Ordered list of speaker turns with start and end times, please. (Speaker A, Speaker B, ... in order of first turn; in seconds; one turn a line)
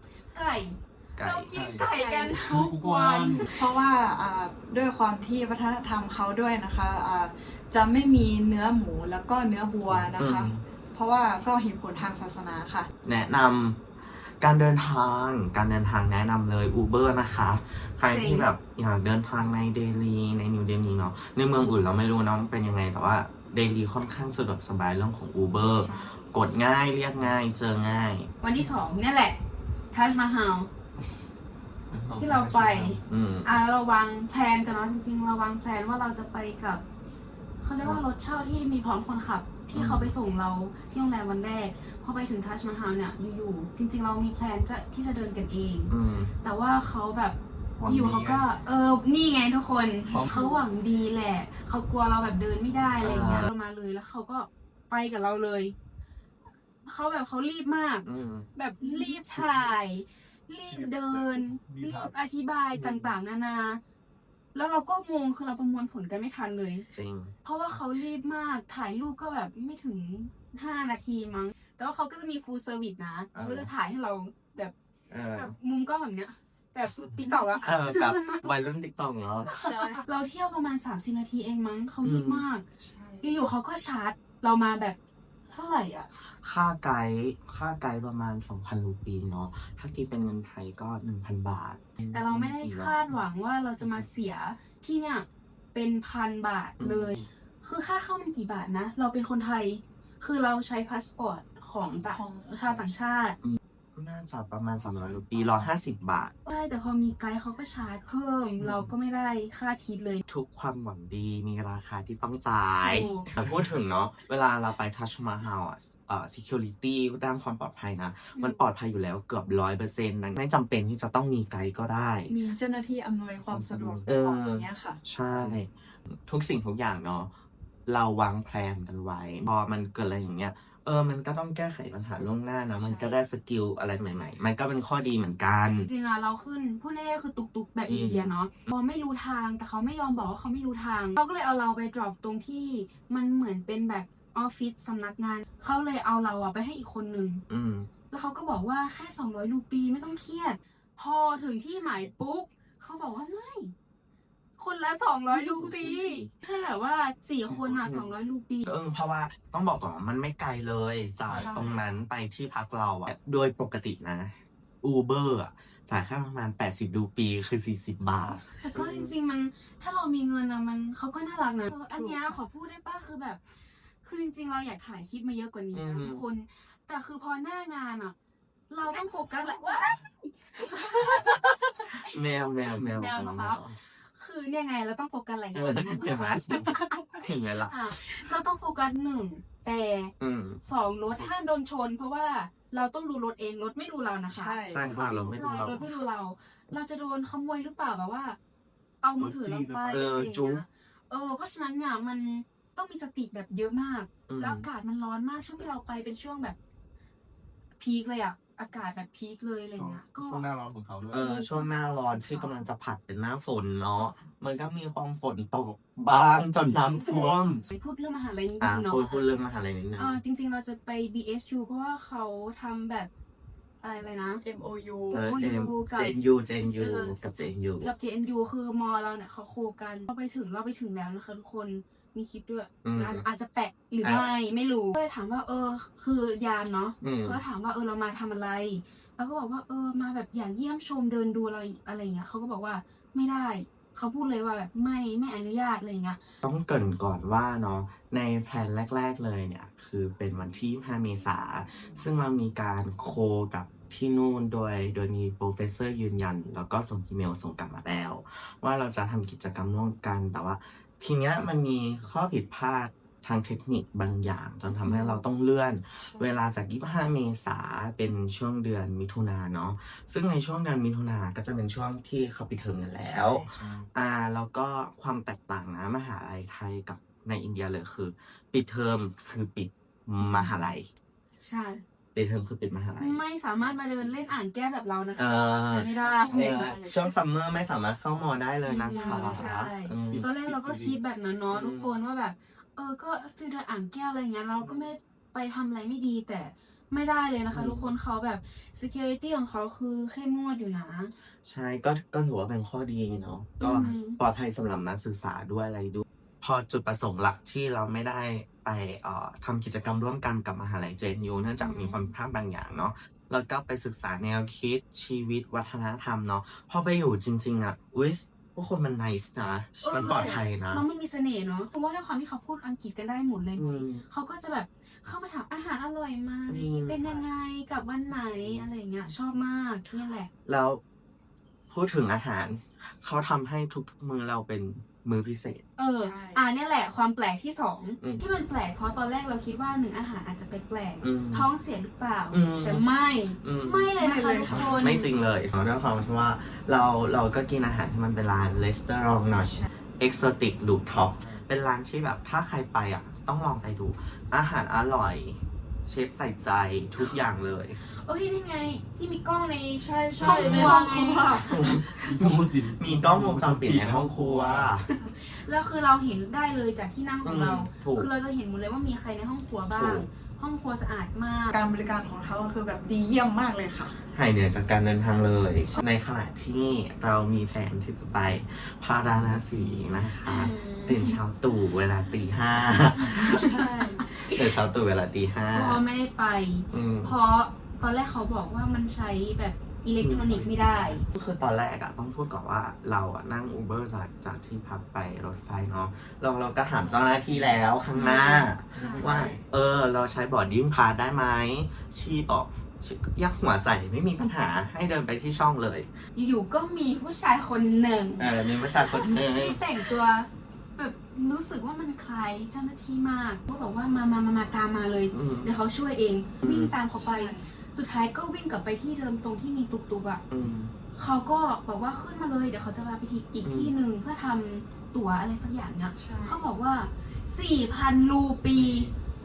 Speaker A: 0.3-2.7
Speaker B: 1.2-1.5
Speaker C: 1.5-3.5
Speaker D: 2.0-12.9
Speaker B: 9.9-10.6
Speaker B: 13.0-28.3
Speaker A: 18.1-18.5
Speaker D: 25.8-26.4
Speaker A: 28.4-29.4
Speaker A: 29.9-30.7
Speaker C: 31.9-33.0
Speaker A: 32.2-36.8
Speaker B: 33.1-33.6
Speaker A: 37.6-55.8
Speaker B: 39.7-40.1
Speaker B: 45.9-46.3
Speaker C: 47.8-48.5
Speaker D: 50.1-50.6
Speaker B: 53.0-53.5
Speaker A: 56.9-63.8
Speaker B: 58.0-58.5
Speaker C: 59.3-59.8
Speaker C: 60.7-62.1
Speaker A: 64.5-66.9
Speaker B: 66.9-67.3
Speaker A: 67.5-74.7
Speaker B: 73.3-73.7
Speaker B: 75.1-75.5
Speaker A: 75.3-78.4
Speaker B: 77.6-79.6
Speaker D: 79.5-80.0
Speaker A: 79.5-82.7
Speaker B: 82.0-82.5
Speaker D: 82.8-83.5
Speaker A: 83.2-85.0
Speaker A: 85.5-86.1
Speaker B: 86.4-93.0
Speaker A: 92.1-103.4
Speaker B: 96.8-97.2
Speaker D: 102.0-102.8
Speaker B: 103.4-106.3
Speaker C: 104.7-105.7
Speaker A: 106.5-110.2
Speaker B: 108.6-108.9
Speaker B: 110.3-122.3
Speaker A: 112.8-113.3
Speaker A: 118.3-118.6
Speaker D: 122.3-125.0
Speaker B: 123.5-125.7
Speaker C: 125.3-125.6
Speaker B: 126.3-127.3
Speaker B: 127.9-135.9
Speaker D: 132.8-133.1
Speaker A: 135.8-147.4
Speaker B: 137.9-138.7
Speaker B: 147.5-147.9
Speaker A: 148.1-153.7
Speaker A: 154.6-158.7
Speaker B: 155.3-156.3
Speaker B: 157.4-158.1
Speaker B: 158.7-169.1
Speaker C: 161.3-161.7
Speaker D: 161.4-161.8
Speaker A: 168.6-173.4
Speaker A: 174.0-178.1
Speaker B: 175.7-176.2
Speaker A: 178.7-181.6
Speaker D: 179.4-179.8
Speaker B: 181.9-183.8
Speaker A: 182.8-183.6
Speaker A: 184.1-186.7
Speaker B: 185.5-187.8
Speaker D: 186.5-187.0
Speaker A: 187.7-194.7
Speaker B: 190.2-190.6
Speaker D: 194.3-195.9
Speaker B: 194.7-195.9
Speaker A: 195.2-198.4
Speaker A: 199.0-206.6
Speaker C: 199.2-200.1
Speaker B: 199.9-200.6
Speaker B: 204.3-204.7
Speaker A: 207.8-210.5
Speaker C: 209.7-211.2
Speaker B: 211.1-217.7
Speaker A: 211.2-212.6
Speaker A: 217.7-219.3
Speaker B: 218.6-220.2
Speaker A: 219.9-223.1
Speaker A: 223.8-224.4
Speaker D: 224.4-225.2
Speaker A: 225.1-227.2
Speaker B: 225.1-227.9
Speaker A: 227.8-246.2
Speaker B: 232.8-233.2
Speaker B: 234.0-234.3
Speaker B: 237.0-237.4
Speaker B: 246.4-280.9
Speaker D: 266.1-266.4
Speaker D: 273.0-273.7
Speaker C: 273.6-273.9
Speaker A: 280.2-280.5
Speaker A: 281.4-281.8
Speaker B: 282.1-283.2
Speaker A: 283.0-286.7
Speaker C: 283.6-284.1
Speaker B: 285.2-290.3
Speaker D: 286.0-287.1
Speaker A: 288.7-301.1
Speaker D: 288.9-289.5
Speaker C: 290.1-291.0
Speaker B: 291.5-292.0
Speaker B: 294.6-294.9
Speaker B: 297.5-297.9
Speaker B: 301.4-320.8
Speaker A: 303.6-304.2
Speaker A: 311.6-312.1
Speaker A: 319.8-330.3
Speaker D: 320.0-320.4
Speaker B: 323.6-324.1
Speaker B: 326.5-327.2
Speaker B: 328.4-328.7
Speaker B: 330.5-330.8
Speaker B: 331.7-335.6
Speaker A: 335.8-345.1
Speaker D: 336.0-336.4
Speaker B: 341.0-341.5
Speaker B: 342.3-342.8
Speaker B: 343.4-343.9
Speaker D: 344.0-344.8
Speaker C: 344.5-344.9
Speaker B: 344.7-357.8
Speaker C: 351.2-351.5
Speaker A: 357.8-361.6
Speaker D: 359.8-361.8
Speaker B: 360.2-360.7
Speaker C: 360.3-360.7
Speaker B: 361.4-364.9
Speaker C: 362.0-364.7
Speaker A: 364.8-371.6
Speaker B: 367.2-368.1
Speaker B: 369.7-370.1
Speaker D: 371.5-373.9
Speaker B: 374.1-385.8
Speaker A: 380.3-381.2
Speaker D: 383.0-384.0
Speaker A: 385.5-391.1
Speaker B: 386.7-387.2
Speaker B: 390.0-405.9
Speaker C: 397.3-397.6
Speaker A: 397.9-399.3
Speaker C: 398.7-399.4
Speaker A: 406.2-420.2
Speaker B: 408.2-409.9
Speaker B: 415.1-415.5
Speaker B: 416.4-416.7
Speaker D: 417.0-417.5
Speaker B: 420.3-420.7
Speaker A: 420.9-428.9
Speaker B: 423.4-423.7
Speaker D: 426.0-426.4
Speaker B: 428.6-428.9